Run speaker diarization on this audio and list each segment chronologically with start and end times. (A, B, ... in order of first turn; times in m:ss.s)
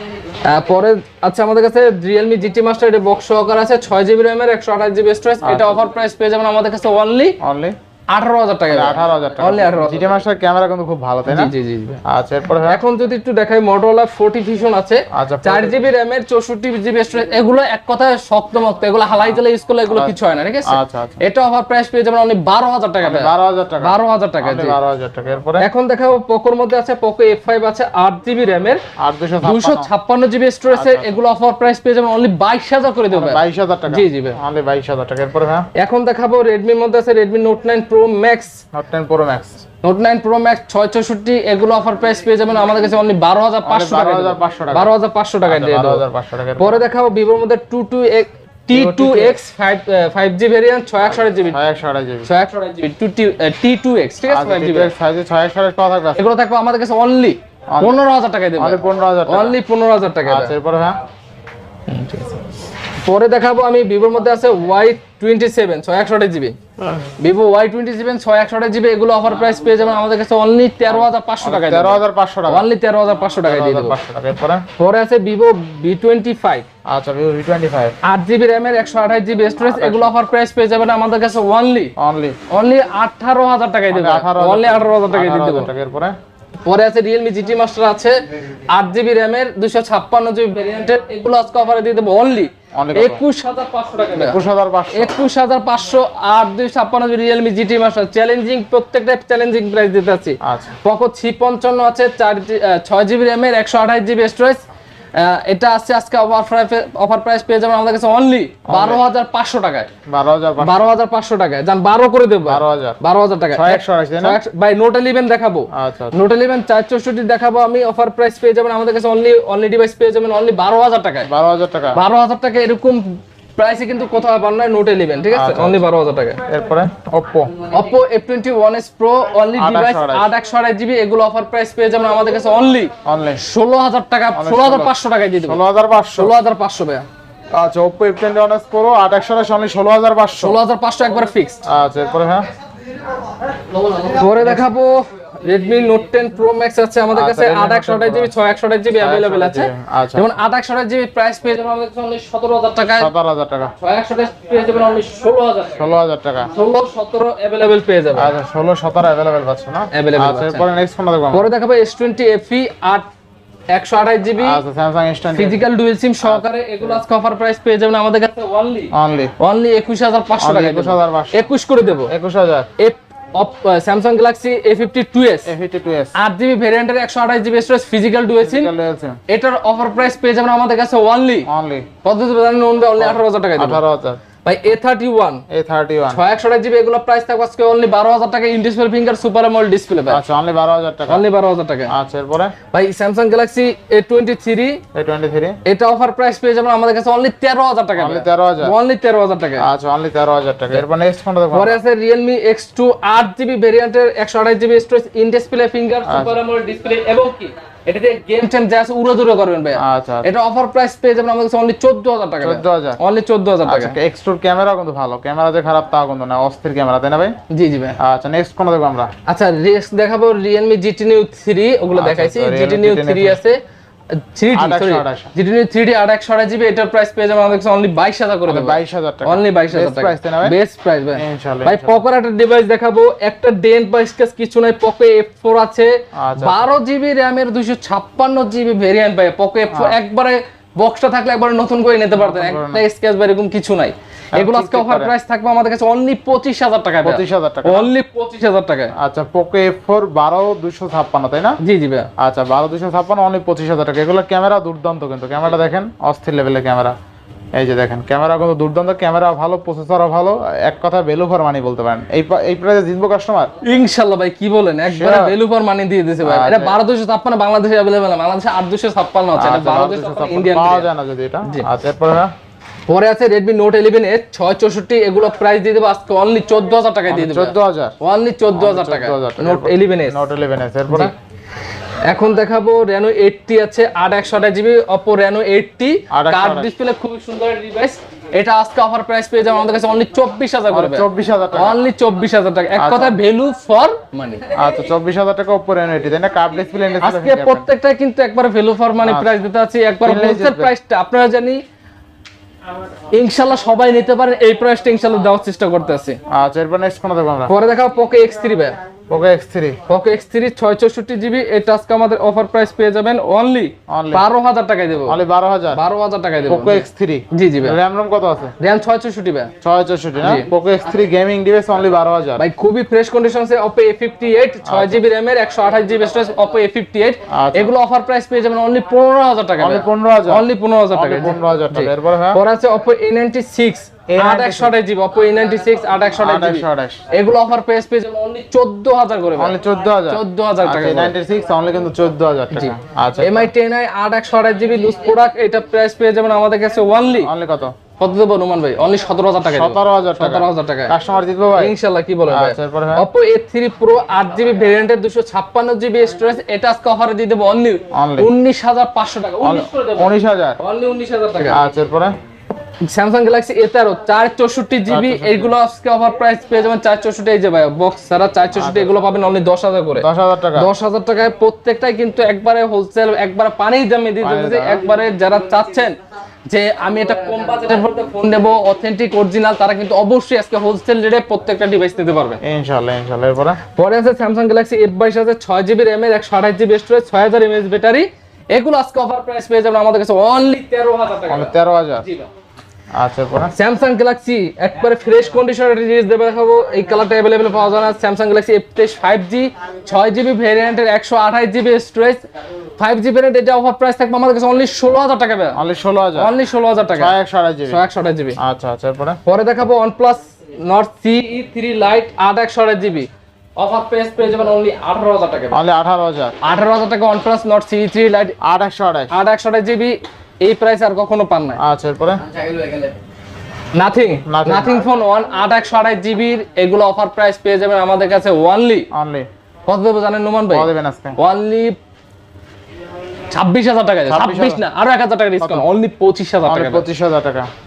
0:00.4-0:07.4 A
0:05.4-0:05.8 B
0:07.4-0:07.7 B
0:08.1-0:10.1 A
0:08.7-0:11.5 B
0:11.3-0:12.0 A
0:12.0-0:12.8 B
0:12.6-0:24.8 A
0:15.1-0:15.9 B
0:19.2-0:20.1 B
0:20.6-0:21.2 B
0:23.0-0:25.7 B
0:25.6-0:28.8 A
0:29.0-0:29.9 B
0:29.4-0:34.4 A
0:30.7-0:31.2 B
0:33.1-0:35.7 B
0:35.8-0:38.6 A
0:38.7-0:39.6 B
0:39.8-0:46.0 A
0:43.6-0:44.9 B
0:45.4-0:46.8 B
0:46.6-0:51.6 A
0:48.7-0:49.4 B
0:51.5-0:52.3 B
0:52.2-0:54.9 A
0:54.3-0:56.2 B
0:56.2-1:00.5 A
0:57.7-0:58.0 B
0:58.6-0:59.6 B
1:00.2-1:01.0 B
1:01.9-1:02.4 A
1:03.0-1:14.0 A
1:10.9-1:12.7 B
1:13.4-1:14.6 B
1:14.8-1:16.7 A
1:16.9-1:18.0 B
1:18.0-1:21.9 A
1:19.6-1:20.1 B
1:22.0-1:22.4 B
1:22.5-1:25.7 A
1:23.9-1:26.1 B
1:26.6-1:28.2 A
1:28.7-1:34.4 A
1:32.7-1:33.2 B
1:34.1-1:35.2 B
1:34.9-1:44.6 A
1:40.4-1:40.7 B
1:45.2-1:49.9 A
1:48.6-1:49.0 B
1:50.1-1:50.9 B
1:50.6-2:01.3 A
1:52.4-1:53.0 B
1:53.5-1:54.4 B
1:55.7-1:56.2 B
2:01.2-2:02.0 B
2:01.9-2:06.4 A
2:05.3-2:05.8 B
2:06.5-2:07.6 B
2:07.6-2:15.6 A
2:09.5-2:10.3 B
2:13.0-2:13.4 B
2:14.3-2:16.3 B
2:16.1-2:17.0 A
2:17.5-2:20.6 B
2:20.4-2:21.6 A
2:21.6-2:22.5 B
2:23.8-2:33.1 A
2:24.4-2:24.6 B
2:27.1-2:28.3 B
2:28.9-2:30.3 B
2:33.0-2:33.7 B
2:33.8-2:35.8 A
2:35.8-2:36.5 B
2:36.5-2:38.3 A
2:38.1-2:41.5 B
2:39.9-2:40.6 A
2:41.3-2:43.1 A
2:43.7-2:44.6 A
2:44.4-2:45.7 B
2:45.3-2:52.1 A
2:46.2-2:47.0 B
2:48.9-2:49.3 B
2:50.4-2:51.5 B
2:52.1-2:52.7 B
2:52.8-2:55.5 A
2:55.4-2:56.1 B
2:56.1-2:58.7 A
2:58.4-2:59.2 B
2:59.3-3:01.5 A
3:01.4-3:01.9 B
3:02.0-3:03.8 A
3:03.0-3:04.2 B
3:04.4-3:05.4 A
3:05.5-3:06.2 B
3:06.1-3:10.2 A
3:10.1-3:11.2 B
3:11.1-3:11.9 A
3:11.9-3:12.5 B
3:12.7-3:14.8 A
3:14.9-3:15.6 B
3:15.6-3:19.7 A
3:18.0-3:18.7 B
3:19.6-3:21.8 B
3:21.5-3:34.0 A
3:26.0-3:26.4 B
3:29.8-3:30.3 B
3:32.4-3:33.0 B
3:33.6-3:37.4 B
3:37.5-3:38.0 A
3:38.0-3:39.1 B
3:39.3-3:43.6 A
3:41.9-3:43.4 B
3:44.1-4:08.9 A
3:44.5-3:45.3 B
3:48.5-3:50.6 B
3:51.1-3:52.0 B
3:56.2-3:56.7 B
3:59.7-4:00.0 B
4:02.2-4:02.8 B
4:04.3-4:05.1 B
4:07.0-4:07.9 B
4:09.0-4:11.6 B
4:11.6-4:12.1 A
4:12.2-4:16.9 B
4:17.5-4:23.5 B
4:23.6-4:30.9 A
4:24.9-4:25.4 B
4:26.2-4:26.8 B
4:29.3-4:32.3 B
4:32.9-4:40.2 A
4:37.1-4:38.0 B
4:38.5-4:41.1 B
4:42.1-4:54.4 A
4:46.1-4:46.7 B
4:50.7-4:51.8 B
4:52.8-4:53.2 B
4:54.5-4:57.7 B
4:57.0-5:01.6 A
4:59.0-4:59.3 B
5:00.0-5:00.7 B
5:03.1-5:06.2 A
5:06.3-5:07.5 B
5:07.5-5:08.8 A
5:09.1-5:09.8 B
5:09.9-5:15.2 A
5:13.9-5:14.2 B
5:15.0-5:15.8 B
5:15.7-5:17.8 A
5:16.5-5:18.5 B
5:18.6-5:19.5 A
5:19.6-5:22.4 B
5:20.2-5:20.5 A
5:22.4-5:39.6 A
5:24.6-5:25.0 B
5:27.3-5:27.7 B
5:29.6-5:32.4 B
5:34.1-5:34.7 B
5:36.2-5:37.0 B
5:39.4-5:43.5 B
5:40.1-5:41.1 A
5:42.5-5:47.3 A
5:47.2-5:47.7 B
5:48.0-5:50.9 A
5:49.5-5:51.7 B
5:51.6-6:01.6 A
5:52.3-5:53.0 B
5:57.9-5:58.3 B
5:59.4-6:00.6 B
6:01.4-6:02.1 B
6:02.8-6:15.9 A
6:04.9-6:05.5 B
6:08.5-6:08.9 B
6:10.0-6:10.7 B
6:14.2-6:14.8 B
6:16.5-6:22.4 A
6:22.4-6:23.6 B
6:23.7-6:32.3 A
6:31.3-6:32.0 B
6:32.9-6:33.5 B
6:33.6-6:42.2 A
6:42.8-6:45.6 A
6:45.5-6:46.3 B
6:46.2-6:47.1 A
6:46.9-6:47.8 B
6:47.7-6:48.4 A
6:48.4-6:49.2 B
6:49.2-6:55.6 A
6:55.5-6:56.4 B
6:56.4-6:58.4 A
6:58.4-6:59.1 B
6:59.1-7:01.6 A
7:01.6-7:02.2 B
7:03.7-7:08.9 A
7:04.2-7:04.9 B
7:08.9-7:09.3 B
7:09.7-7:11.8 A
7:10.5-7:11.2 B
7:13.3-7:16.8 A
7:14.1-7:14.6 B
7:15.4-7:15.6 B
7:16.4-7:17.5 B